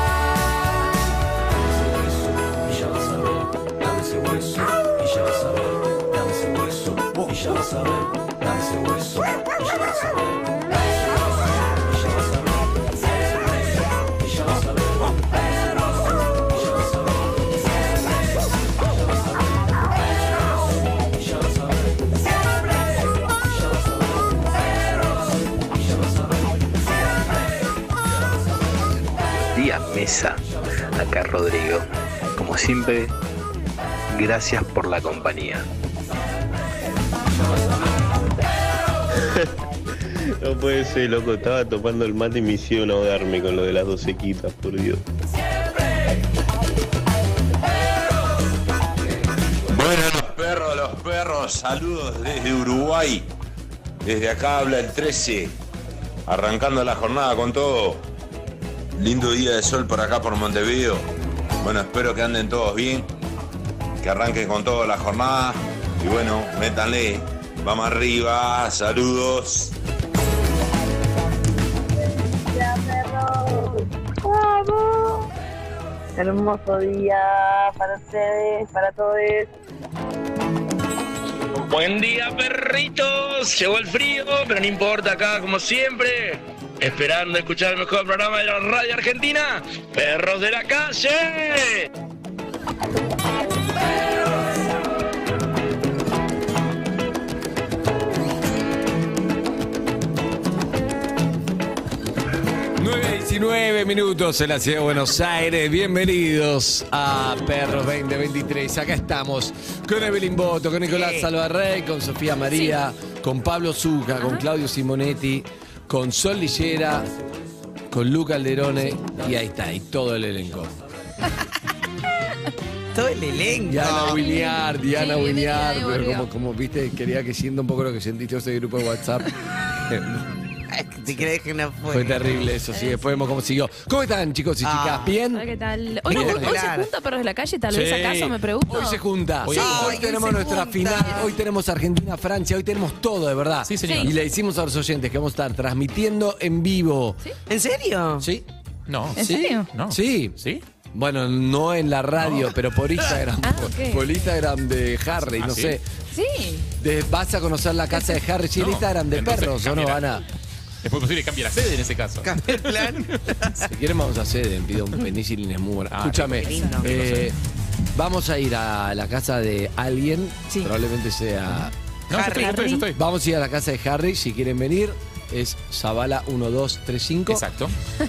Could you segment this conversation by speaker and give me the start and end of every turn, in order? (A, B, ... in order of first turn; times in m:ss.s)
0:07.2-0:07.5 A
0:29.5-0:33.1 B
0:34.1-0:35.6 B
0:39.1-0:45.0 C
0:49.7-0:53.3 D
0:54.0-0:55.5 D
0:56.3-0:58.0 D
0:59.0-1:01.0 D
1:01.6-1:03.1 D
1:04.0-1:09.7 D
1:12.3-1:15.3 E
1:16.2-1:19.5 E
1:21.7-1:31.8 F
1:42.7-1:57.1 A
1:50.9-1:51.3 G
1:54.2-1:54.4 H
1:57.9-2:00.7 A
2:02.9-2:04.2 G
2:03.7-2:09.3 A
2:04.1-2:06.3 H
2:09.8-2:10.3 A
2:10.7-2:12.3 G
2:11.9-2:15.4 A
2:12.7-2:13.0 H
2:14.6-2:15.2 G
2:15.3-2:19.0 H
2:16.1-2:16.9 G
2:16.1-2:16.6 I
2:17.7-2:27.2 A
2:19.4-2:20.0 I
2:19.5-2:21.3 G
2:23.6-2:24.1 I
2:23.8-2:24.1 H
2:27.5-2:28.3 G
2:28.2-2:28.5 A
2:28.9-2:30.6 I
2:29.1-2:30.4 A
2:29.2-2:29.7 H
2:30.9-2:35.8 A
2:32.2-2:32.5 I
2:33.4-2:34.2 H
2:35.2-2:35.8 I
2:36.1-2:36.6 H
2:36.8-2:40.2 A
2:37.9-2:38.2 H
2:38.5-2:40.2 I
2:40.8-2:43.1 I
2:42.2-2:43.6 G
2:43.6-2:47.4 A
2:45.9-2:47.3 I
2:46.4-2:46.9 G
2:46.4-2:46.8 H
2:47.9-2:51.7 A
2:52.1-2:53.0 I
2:52.1-2:52.8 G
2:52.9-2:57.4 A
2:57.3-2:57.7 I